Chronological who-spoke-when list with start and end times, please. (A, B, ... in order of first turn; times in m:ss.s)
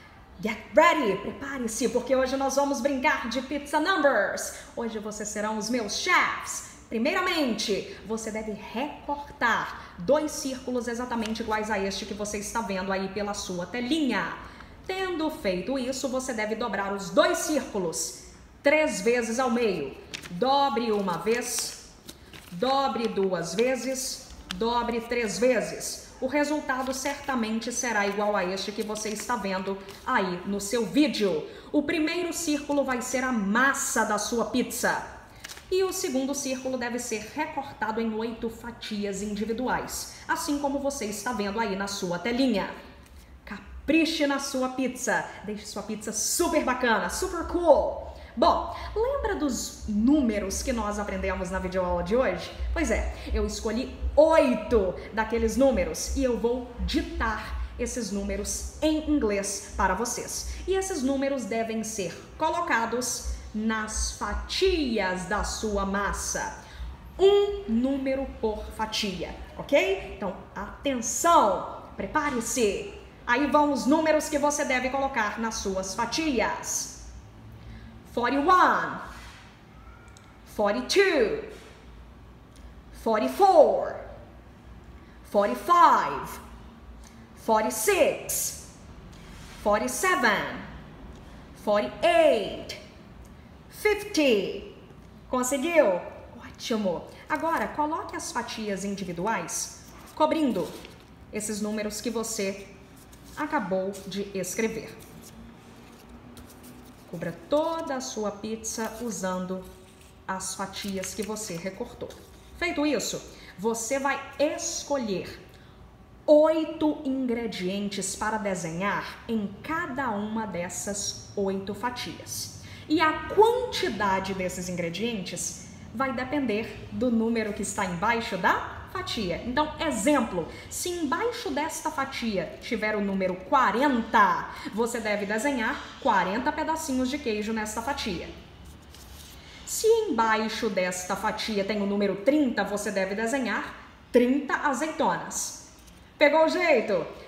0:00.4-0:21.8 A
0:22.5-0:35.1 A
0:35.7-0:42.7 A
0:43.4-1:06.5 A
1:07.2-1:17.0 A
1:18.0-1:19.0 A
1:20.4-1:21.5 A
1:22.9-1:24.0 A
1:25.2-1:26.4 A
1:27.3-1:28.6 A
1:29.6-1:30.7 A
1:31.5-1:32.8 A
1:33.7-1:40.7 A
1:41.3-1:42.7 A
1:43.4-1:45.0 A
1:47.1-1:49.7 A
1:50.3-1:55.4 A
1:56.3-2:18.3 A
2:19.6-2:25.7 A
2:26.2-2:27.1 A